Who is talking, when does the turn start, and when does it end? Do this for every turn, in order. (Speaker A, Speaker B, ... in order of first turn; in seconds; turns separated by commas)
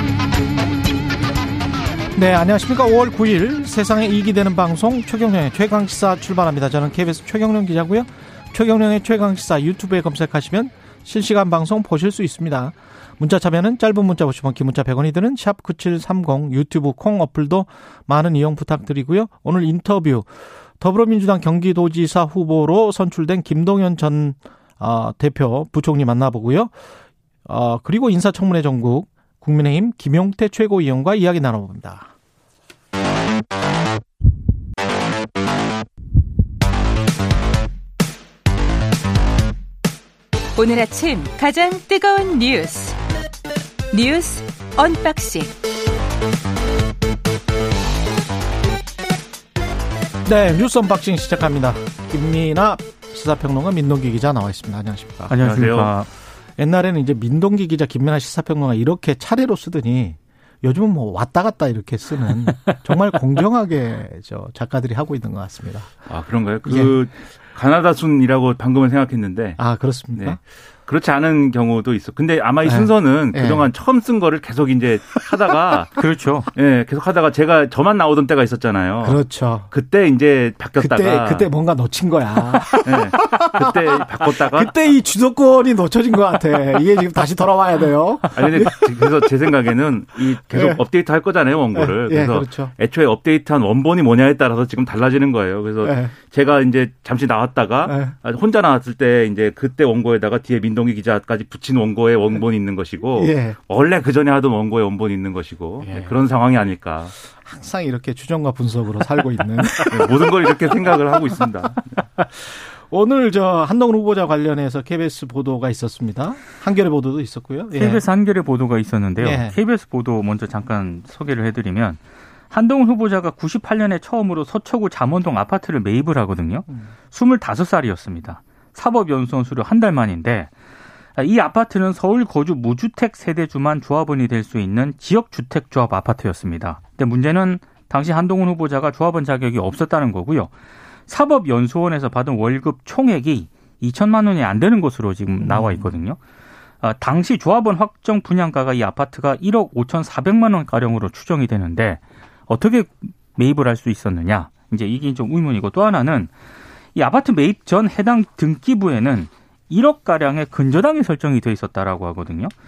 Speaker A: 2.1-26.7, Speaker A: 27.4-32.1, Speaker B: 40.5-43.0, Speaker B: 43.9-45.5, Speaker A: 50.2-55.4, Speaker C: 55.3-56.1, Speaker D: 55.4-55.9, Speaker A: 56.6-66.0, Speaker D: 66.1-69.6, Speaker A: 66.7-67.0, Speaker A: 69.6-70.4, Speaker D: 70.1-75.9, Speaker A: 72.6-73.7, Speaker C: 76.0-76.5, Speaker D: 76.5-81.5, Speaker A: 79.0-79.7, Speaker A: 80.8-88.9, Speaker D: 82.8-84.9, Speaker D: 88.3-107.1, Speaker A: 90.5-90.8, Speaker A: 91.7-92.7, Speaker A: 95.8-96.1, Speaker A: 97.8-98.1, Speaker A: 103.2-103.6, Speaker A: 105.8-106.1, Speaker A: 107.4-111.2, Speaker D: 109.8-112.0, Speaker A: 112.2-118.0, Speaker C: 117.8-122.0, Speaker A: 119.2-119.6, Speaker C: 122.5-130.5, Speaker C: 131.2-140.5, Speaker C: 141.1-146.2, Speaker A: 145.4-145.9, Speaker C: 146.8-156.3, Speaker C: 156.9-162.5